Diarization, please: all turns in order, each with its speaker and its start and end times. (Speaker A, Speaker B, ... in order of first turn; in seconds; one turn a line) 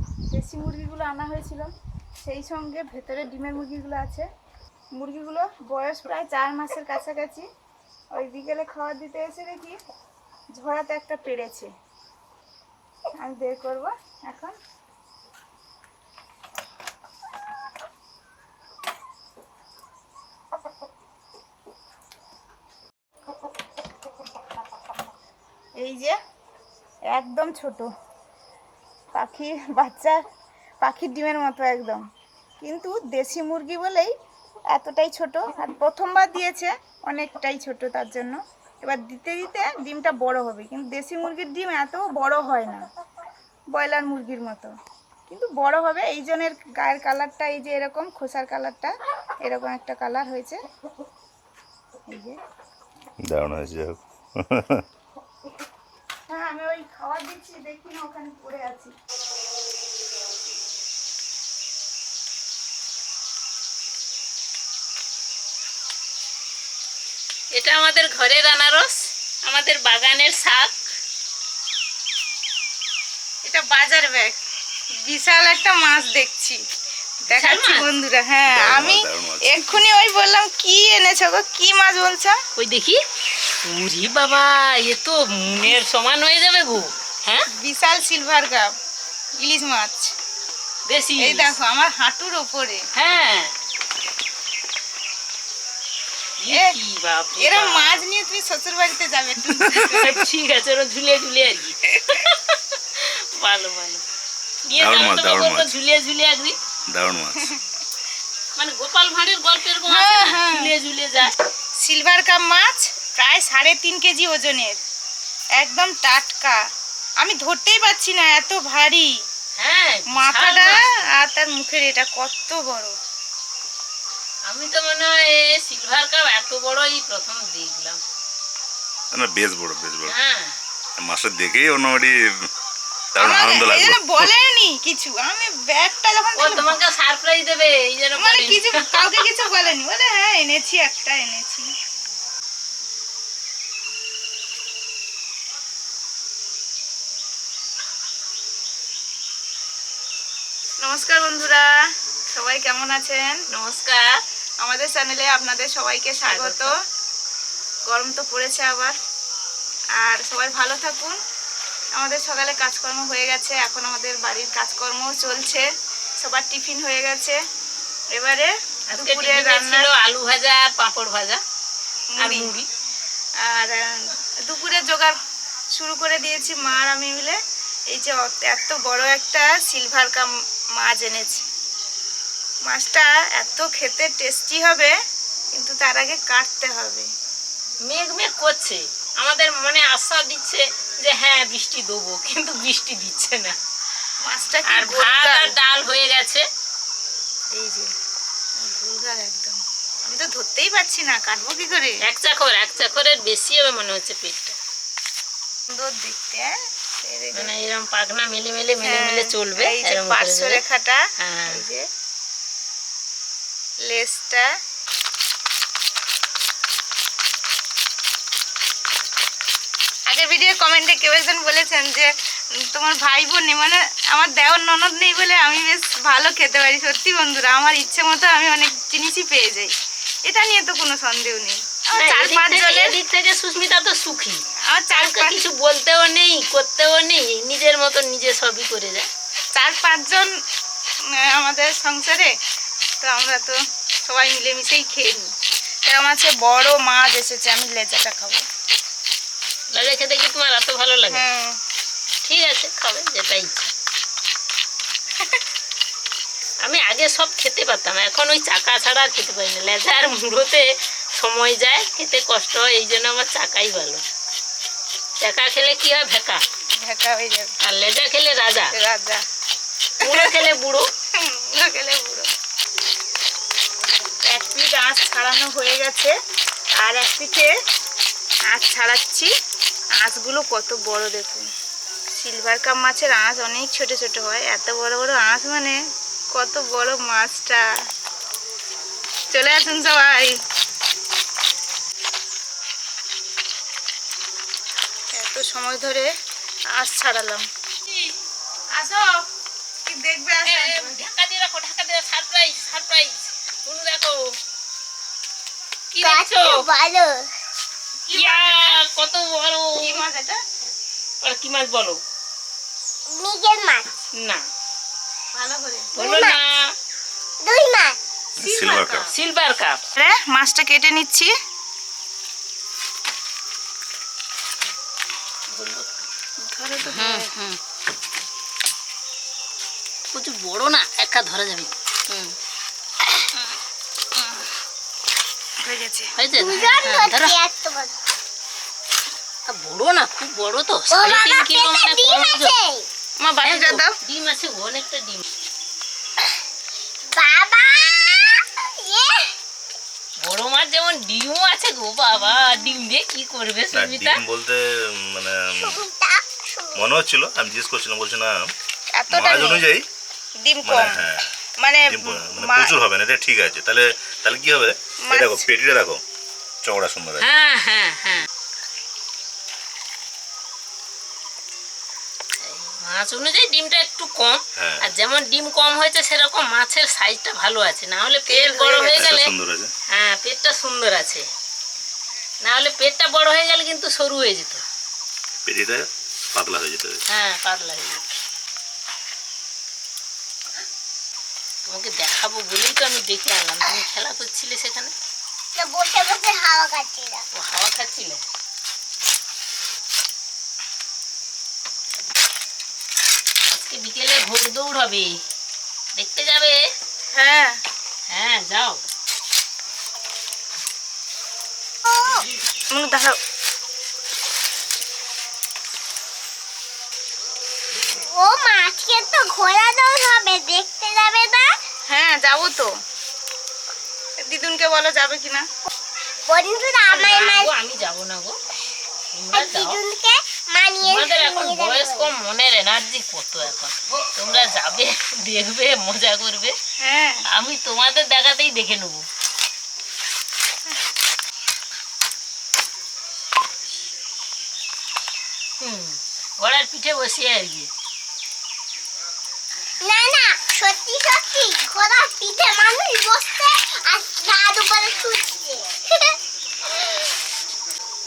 Speaker A: 0.3-1.7
Speaker A: 2.2-4.3
Speaker A: 5.0-7.5
Speaker A: 8.1-9.8
Speaker A: 10.6-11.7
Speaker A: 13.2-14.6
Speaker A: 25.8-26.2
Speaker A: 27.1-27.9
Speaker A: 29.1-30.2
Speaker A: 30.8-32.0
Speaker A: 32.6-34.1
Speaker A: 34.7-42.9
Speaker A: 43.7-44.7
Speaker A: 45.3-48.9
Speaker A: 49.4-50.6
Speaker A: 52.1-52.4
Speaker B: 53.3-54.9
Speaker A: 56.3-58.9
Speaker C: 67.5-70.8
Speaker A: 73.5-74.3
Speaker A: 75.0-76.6
Speaker A: 77.3-82.4
Speaker C: 77.3-77.8
Speaker B: 78.5-79.6
Speaker C: 82.6-83.0
Speaker C: 83.6-87.5
Speaker A: 87.5-88.7
Speaker A: 89.4-90.1
Speaker C: 90.9-91.5
Speaker A: 91.2-92.9
Speaker C: 93.0-93.5
Speaker C: 96.4-98.0
Speaker A: 96.5-96.8
Speaker A: 97.4-100.2
Speaker B: 99.6-100.0
Speaker C: 99.7-104.0
Speaker C: 104.7-106.6
Speaker B: 104.8-105.7
Speaker B: 106.9-107.5
Speaker C: 108.6-111.3
Speaker A: 109.9-110.7
Speaker A: 111.8-114.8
Speaker A: 115.6-116.6
Speaker A: 117.2-119.2
Speaker C: 119.6-121.1
Speaker A: 120.1-123.0
Speaker C: 124.5-128.0
Speaker B: 129.1-130.2
Speaker C: 130.1-130.6
Speaker B: 131.0-132.5
Speaker B: 133.2-134.3
Speaker A: 133.2-136.8
Speaker C: 136.4-139.3
Speaker A: 138.2-141.7
Speaker A: 150.8-151.8
Speaker A: 152.3-156.8
Speaker C: 156.3-156.7
Speaker A: 157.9-159.0
Speaker A: 160.0-161.2
Speaker A: 161.9-165.7
Speaker A: 166.2-167.4
Speaker A: 168.2-169.9
Speaker C: 168.9-171.4
Speaker A: 172.1-172.5
Speaker C: 172.2-172.7
Speaker A: 173.4-175.2
Speaker A: 175.7-181.4
Speaker A: 182.7-184.9
Speaker A: 185.5-187.1
Speaker C: 187.8-193.6
Speaker A: 194.2-195.6
Speaker C: 194.7-196.4
Speaker A: 197.5-197.9
Speaker A: 198.6-202.0
Speaker C: 202.0-204.6
Speaker A: 205.7-207.5
Speaker C: 207.3-210.6
Speaker A: 208.8-211.8
Speaker C: 211.2-211.6
Speaker A: 213.9-214.5
Speaker A: 220.1-229.7
Speaker A: 230.3-233.0
Speaker C: 232.0-239.1
Speaker A: 234.7-235.4
Speaker A: 239.6-240.4
Speaker A: 241.1-242.3
Speaker A: 243.0-245.3
Speaker A: 245.8-248.4
Speaker C: 249.7-251.2
Speaker A: 251.1-251.6
Speaker C: 252.2-253.7
Speaker C: 256.6-264.0
Speaker C: 265.2-266.4
Speaker A: 266.8-267.6
Speaker C: 267.6-268.7
Speaker A: 268.7-269.2
Speaker C: 270.0-270.9
Speaker A: 270.0-270.4
Speaker A: 271.1-272.3
Speaker A: 274.2-276.1
Speaker A: 276.7-277.5
Speaker A: 278.5-279.3
Speaker A: 279.9-281.5
Speaker A: 282.1-285.8
Speaker A: 286.3-287.7
Speaker A: 289.3-290.4
Speaker A: 295.2-296.1
Speaker A: 296.7-297.5
Speaker A: 298.7-299.2
Speaker A: 299.9-301.0
Speaker C: 300.5-304.3
Speaker C: 305.9-306.6
Speaker D: 306.0-307.3
Speaker A: 308.1-308.8
Speaker C: 308.1-310.0
Speaker A: 309.8-310.4
Speaker C: 311.2-312.0
Speaker D: 313.1-313.9
Speaker C: 314.2-314.4
Speaker A: 315.3-315.9
Speaker D: 316.0-316.4
Speaker C: 316.0-316.7
Speaker D: 317.4-318.0
Speaker B: 318.4-319.1
Speaker A: 318.4-319.1
Speaker C: 319.1-319.8
Speaker A: 320.0-321.3
Speaker C: 325.5-326.1
Speaker A: 326.4-327.3
Speaker C: 326.9-327.6
Speaker C: 330.1-332.4
Speaker A: 335.6-336.1
Speaker C: 336.2-337.4
Speaker D: 336.4-337.9
Speaker C: 339.5-342.6
Speaker D: 340.9-342.9
Speaker A: 343.2-344.0
Speaker C: 343.4-345.2
Speaker D: 347.1-349.3
Speaker C: 350.2-354.2
Speaker B: 353.7-355.8
Speaker D: 355.6-356.8
Speaker B: 356.8-358.5
Speaker A: 358.9-359.6
Speaker B: 359.1-359.9
Speaker A: 360.4-361.0
Speaker B: 360.6-361.3
Speaker A: 361.6-362.7
Speaker B: 361.9-366.0
Speaker A: 365.1-365.5
Speaker B: 366.6-367.3
Speaker C: 367.2-368.3
Speaker C: 372.4-379.3
Speaker B: 374.6-374.9
Speaker A: 378.3-379.1
Speaker B: 378.9-379.7
Speaker C: 379.9-381.3
Speaker C: 382.4-384.6
Speaker B: 385.4-387.0
Speaker C: 387.1-388.1
Speaker C: 391.6-394.9
Speaker D: 395.6-397.2
Speaker C: 397.4-398.2
Speaker C: 403.5-405.1
Speaker C: 406.0-406.6
Speaker A: 407.1-407.6
Speaker C: 408.1-408.8
Speaker D: 411.9-412.2
Speaker A: 412.7-413.2
Speaker D: 418.0-421.5
Speaker A: 421.9-422.8
Speaker A: 424.2-425.5
Speaker D: 426.3-427.5
Speaker C: 426.9-428.4
Speaker C: 429.1-429.8
Speaker D: 429.3-432.1
Speaker C: 430.8-436.6
Speaker A: 436.8-437.2
Speaker C: 437.3-439.0
Speaker C: 445.6-447.7
Speaker D: 449.8-457.1